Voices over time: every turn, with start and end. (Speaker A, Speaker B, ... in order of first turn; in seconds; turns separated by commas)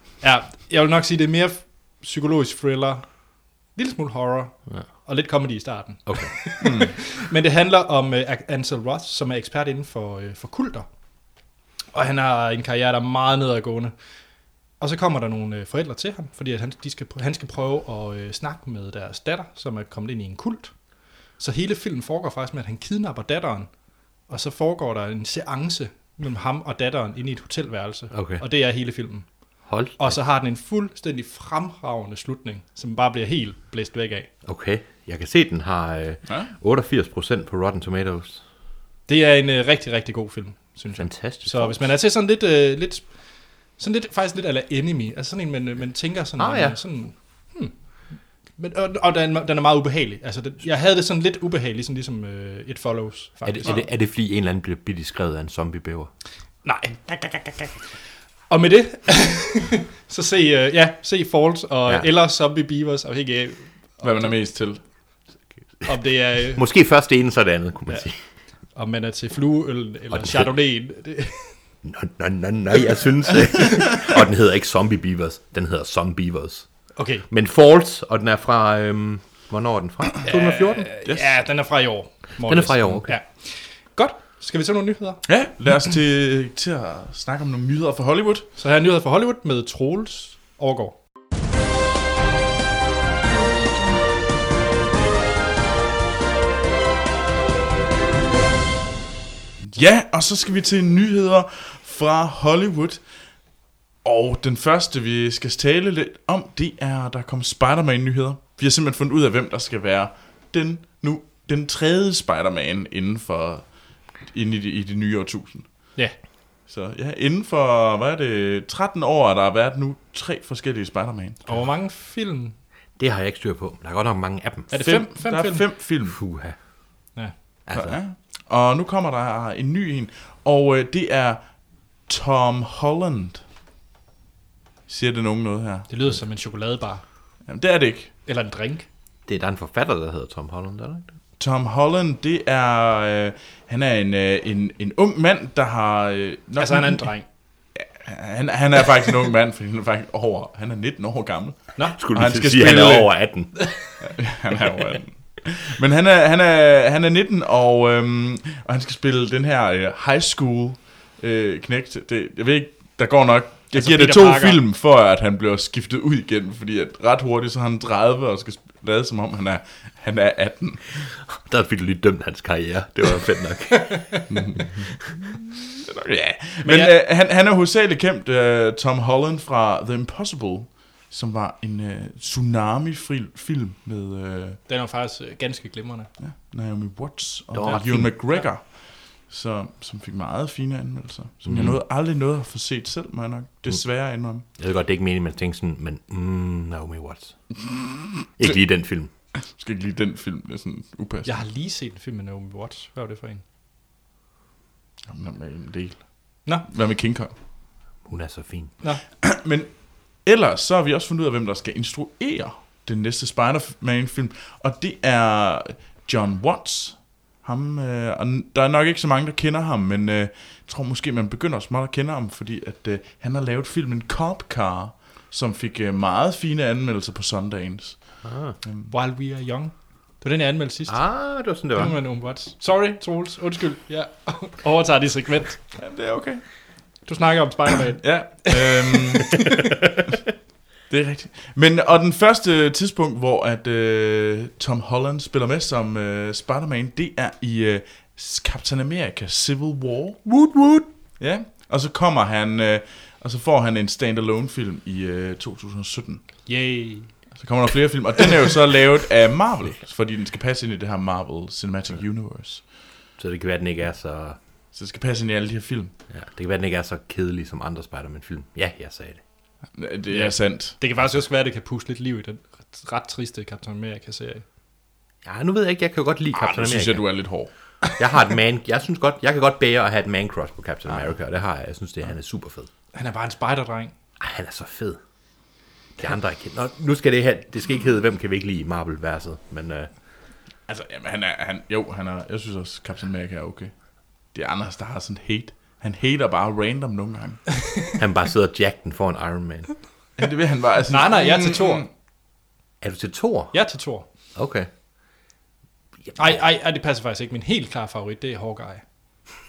Speaker A: 0.2-10.9, Speaker B: 6.0-6.3, Speaker C: 6.6-6.9, Speaker A: 11.9-13.9, Speaker A: 14.8-20.8, Speaker A: 21.4-23.7, Speaker A: 24.3-29.3, Speaker B: 28.1-28.4, Speaker B: 29.7-30.2, Speaker A: 30.0-34.3, Speaker B: 34.4-38.4, Speaker A: 39.1-43.1, Speaker B: 41.0-41.8, Speaker A: 43.7-53.8, Speaker B: 46.4-46.8, Speaker B: 53.4-56.1, Speaker A: 56.6-57.7, Speaker A: 58.5-64.0, Speaker C: 64.0-64.8, Speaker A: 65.8-66.7, Speaker B: 66.5-68.2, Speaker A: 68.7-71.5, Speaker B: 70.1-70.5, Speaker B: 71.8-76.7, Speaker A: 77.0-77.2, Speaker B: 77.3-80.9, Speaker A: 80.3-85.2, Speaker C: 81.0-81.3, Speaker B: 82.4-83.2, Speaker C: 85.2-88.5, Speaker A: 88.6-91.0, Speaker C: 99.6-103.0, Speaker C: 104.0-115.9, Speaker C: 116.7-121.4, Speaker A: 121.5-122.5, Speaker B: 123.0-124.7, Speaker A: 124.7-125.7, Speaker C: 124.8-126.2, Speaker B: 126.1-126.6, Speaker B: 127.7-128.0, Speaker C: 127.7-131.5, Speaker C: 132.1-133.4, Speaker C: 134.9-135.9, Speaker A: 135.9-137.0, Speaker C: 137.5-138.1, Speaker A: 138.2-138.9, Speaker B: 139.3-141.1, Speaker C: 141.4-147.2, Speaker A: 146.6-147.3, Speaker C: 147.7-153.2, Speaker B: 151.9-153.5, Speaker C: 154.0-171.1, Speaker A: 163.7-164.6, Speaker B: 171.3-174.2, Speaker A: 173.9-174.2, Speaker C: 174.3-175.1, Speaker C: 175.8-184.6, Speaker A: 176.6-176.9, Speaker A: 184.7-186.1, Speaker C: 186.2-194.4, Speaker B: 187.5-188.2, Speaker A: 187.7-188.5, Speaker B: 191.4-191.8, Speaker B: 194.6-197.3, Speaker C: 197.7-198.5, Speaker B: 198.4-199.1, Speaker C: 199.4-201.3, Speaker A: 201.2-203.4, Speaker C: 205.1-207.3, Speaker B: 208.1-208.7, Speaker C: 209.2-228.9, Speaker B: 228.2-228.5, Speaker A: 228.9-235.7, Speaker B: 230.9-231.9, Speaker C: 235.8-236.4, Speaker A: 237.0-239.5, Speaker C: 238.0-239.4, Speaker C: 240.9-250.2, Speaker B: 250.2-250.9, Speaker C: 251.2-256.2, Speaker A: 256.4-257.1, Speaker C: 257.4-262.6, Speaker B: 263.2-264.4, Speaker C: 264.7-265.9, Speaker B: 266.1-269.2, Speaker C: 269.7-270.8, Speaker A: 270.1-274.4, Speaker B: 275.2-277.0, Speaker C: 276.3-277.5, Speaker B: 278.0-282.7, Speaker A: 282.9-283.9, Speaker B: 284.2-285.0, Speaker B: 286.0-289.9, Speaker C: 290.7-293.7, Speaker C: 294.3-297.4, Speaker B: 298.0-299.7, Speaker C: 300.2-301.9, Speaker A: 300.9-301.8, Speaker B: 302.8-303.5, Speaker A: 303.5-304.1, Speaker B: 304.3-304.7, Speaker A: 306.1-308.8